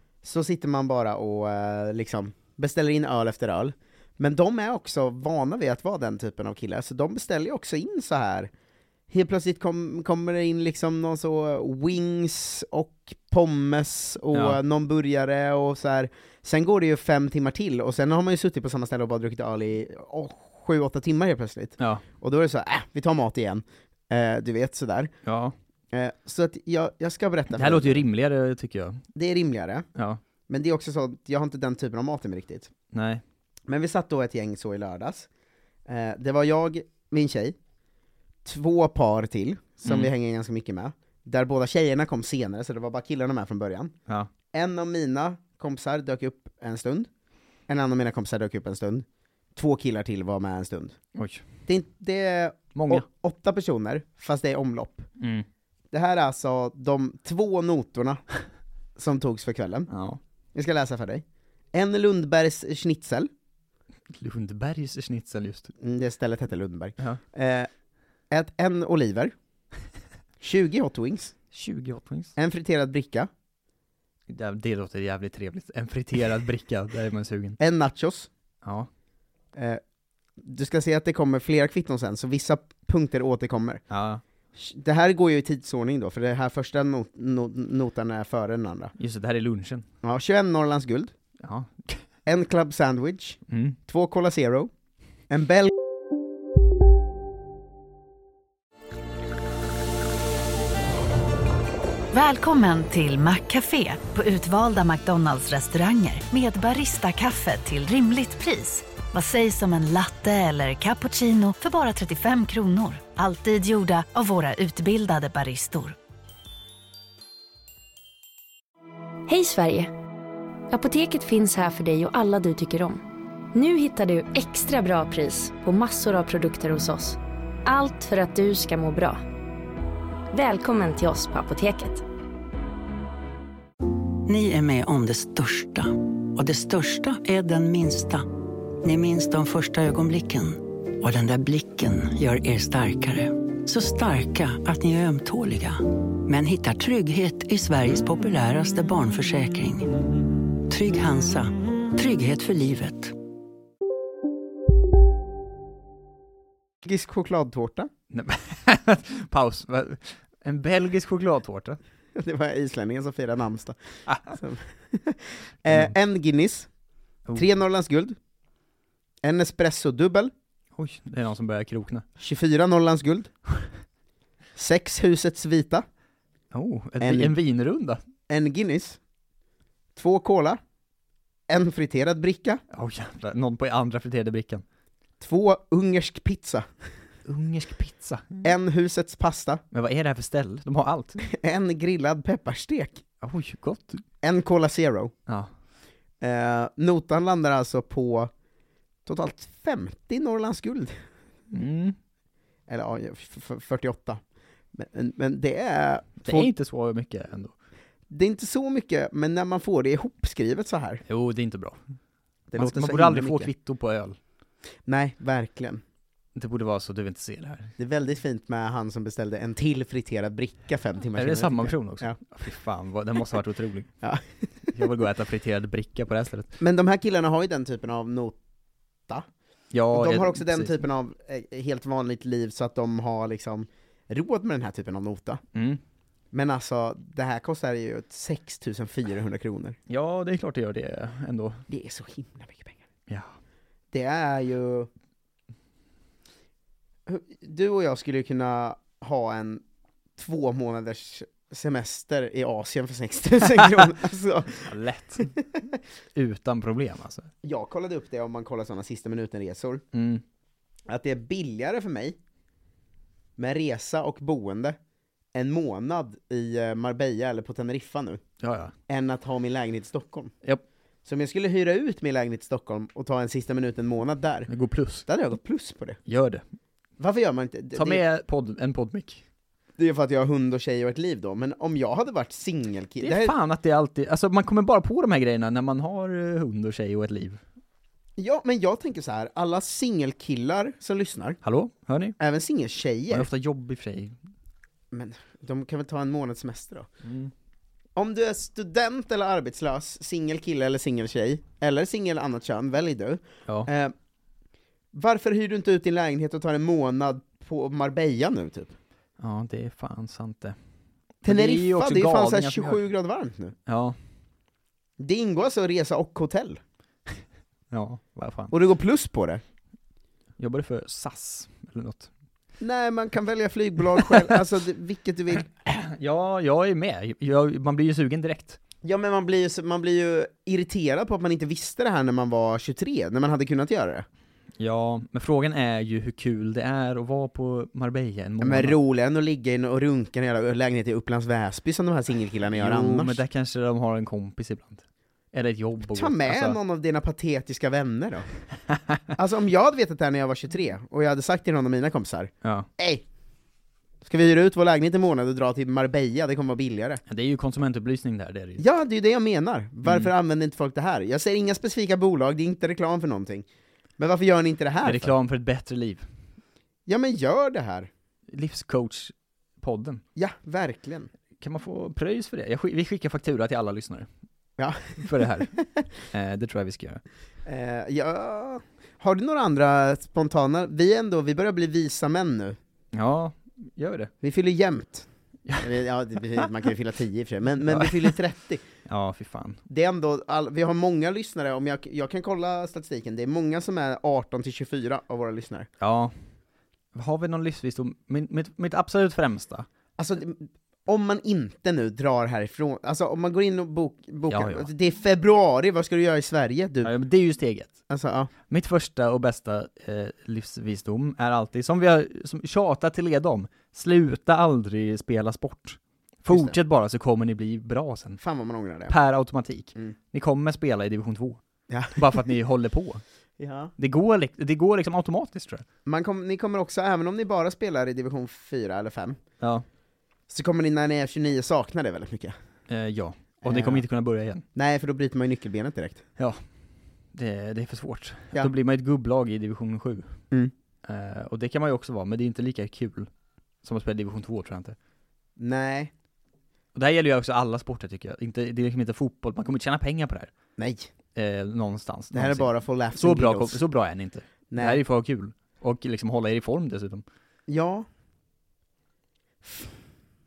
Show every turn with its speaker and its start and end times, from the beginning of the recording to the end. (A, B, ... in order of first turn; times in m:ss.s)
0:00.2-0:08.5 A
0:09.1-0:25.1 A
0:14.3-0:14.6 B
0:21.8-0:22.0 B
0:25.2-0:25.6 B
0:25.9-0:28.0 A
0:27.5-0:29.0 B
0:29.2-0:29.9 A
0:30.0-0:30.2 B
0:30.5-0:32.7 A
0:32.9-0:33.2 B
0:33.7-0:35.3 A
0:35.9-0:37.6 A
0:38.4-0:43.9 A
0:39.8-0:40.1 B
0:44.5-0:47.1 A
0:47.7-0:51.0 A
0:51.2-0:51.4 B
0:51.7-0:55.1 A
0:52.8-0:53.0 B
0:55.2-0:55.5 B
0:55.9-0:58.2 A
0:59.0-0:59.9 A
0:59.9-1:00.2 B
1:00.6-1:03.3 A
1:04.1-1:05.7 B
1:05.8-1:07.7 A
1:08.3-1:09.3 A
1:10.4-1:11.4 A
1:11.5-1:12.3 B
1:12.4-1:13.3 A
1:14.3-1:17.6 B
1:17.6-1:18.3 A
1:18.6-1:18.9 B
1:19.6-1:19.8 A
1:20.4-1:23.8 A
1:23.9-1:24.2 B
1:24.6-1:28.9 A
1:29.0-1:29.9 B
1:30.0-1:31.1 A
1:31.4-1:32.0 B
1:32.3-1:34.7 A
1:33.5-1:33.8 B
1:35.3-1:35.7 A
1:42.1-1:56.0 C
1:59.3-1:59.9 D
2:00.7-2:03.0 D
2:03.5-2:09.2 D
2:10.3-2:12.0 D
2:14.2-2:18.3 E
2:18.8-2:30.0 E
2:30.7-2:33.1 E
2:36.8-2:37.9 A
2:38.1-2:41.8 B
2:42.2-2:46.7 A
2:47.4-2:48.2 A
2:49.2-2:50.3 A
2:50.8-2:52.0 B
2:52.2-2:53.3 A
2:54.6-2:55.8 A
2:56.5-2:58.0 B
2:57.0-2:57.3 A
2:58.3-2:59.0 A
3:00.0-3:00.6 A
3:01.5-3:02.6 A
3:02.7-3:04.6 B
3:05.2-3:06.7 A
3:07.3-3:08.5 B
3:08.4-3:09.6 A
3:09.7-3:11.2 B
3:11.2-3:13.0 A
3:13.2-3:14.0 B
3:14.2-3:15.1 A
3:16.2-3:18.3 A
3:19.1-3:21.0 A
3:21.5-3:22.0 B
3:22.7-3:24.2 A
3:24.7-3:26.5 A
3:26.2-3:27.5 B
3:28.1-3:31.0 A
3:31.1-3:31.8 B
3:32.5-3:33.5 A
3:32.6-3:34.2 B
3:34.9-3:35.8 A
3:36.4-3:37.8 B
3:37.8-3:42.2 A
3:41.2-3:43.9 B
3:44.0-3:44.7 A
3:44.7-3:46.6 B
3:46.6-3:48.4 A
3:49.7-3:50.8 B
3:49.9-3:55.4 A
3:55.5-3:55.8 B
3:56.3-3:59.8 A
3:59.9-4:01.7 B
4:01.7-4:02.8 A
4:03.9-4:04.9 A
4:07.1-4:09.6 A
4:10.2-4:14.7 A
4:13.6-4:13.9 B
4:14.5-4:15.3 B
4:16.2-4:17.3 B
4:17.4-4:19.8 A
4:19.9-4:20.2 B
4:20.9-4:22.2 A
4:23.4-4:24.8 A
4:25.3-4:28.2 A
4:28.4-4:28.7 B
4:28.9-4:30.3 A
4:31.1-4:34.5 A
4:34.5-4:35.1 B
4:35.1-4:36.0 A
4:36.1-4:36.4 B
4:37.0-4:38.0 A
4:37.8-4:39.2 B
4:39.8-4:43.3 A
4:43.0-4:47.4 B
4:48.2-4:51.4 A
4:51.4-4:52.2 B
4:52.2-4:53.3 A
4:53.1-4:54.2 B
4:54.9-4:56.9 A
4:57.0-4:57.3 B
4:58.0-5:03.9 A
5:04.9-5:08.8 A
5:09.2-5:10.6 B
5:11.2-5:12.8 B
5:11.2-5:13.6 A
5:13.7-5:14.0 B
5:15.0-5:16.6 A
5:17.7-5:18.5 B
5:18.5-5:19.4 A
5:20.4-5:22.1 B
5:22.6-5:25.5 A
5:24.0-5:24.4 B
5:25.6-5:28.6 B
5:28.8-5:34.1 A
5:34.6-5:38.8 B
5:38.4-5:43.2 A
5:42.6-5:46.6 B
5:45.9-5:48.2 A
5:49.2-5:53.0 A
5:52.4-5:52.7 B
5:54.0-5:57.0 A
5:57.1-5:58.6 B
5:58.6-6:03.4 A
5:59.8-6:00.1 B
6:04.0-6:05.1 A
6:04.8-6:06.1 B
6:06.9-6:07.9 A
6:08.3-6:10.0 B
6:10.2-6:11.1 A
6:11.4-6:14.1 B
6:14.6-6:15.6 A
6:15.0-6:15.5 B
6:16.1-6:17.0 B
6:17.5-6:22.6 A
6:22.9-6:24.1 B
6:24.2-6:25.1 A
6:25.6-6:28.6 A
6:27.7-6:28.2 B
6:28.9-6:29.6 B
6:29.7-6:35.7 A
6:35.8-6:36.2 B
6:36.9-6:39.7 B
6:40.0-6:46.9 A
6:44.3-6:44.7 B
6:46.8-6:47.8 B
6:47.9-6:48.3 A
6:48.5-6:58.2 B
6:56.3-6:56.6 A
6:58.2-6:59.0 A
6:58.9-7:01.4 B
7:01.7-7:02.2 A
7:01.9-7:03.0 B
7:03.4-7:03.7 A
7:03.8-7:05.6 B
7:05.9-7:09.2 A
7:09.4-7:09.7 B
7:10.3-7:12.3 A
7:12.7-7:14.4 B
7:13.4-7:13.8 A
7:14.6-7:16.0 A
7:16.2-7:16.4 B
7:17.1-7:20.2 B
7:20.8-7:23.1 B
7:23.6-7:24.8 B
7:25.4-7:25.9 A
7:26.7-7:30.3 B
7:30.6-7:30.9 A
7:31.2-7:37.0 B
7:32.1-7:33.6 A
7:34.5-7:34.8 A
7:37.5-7:37.9 A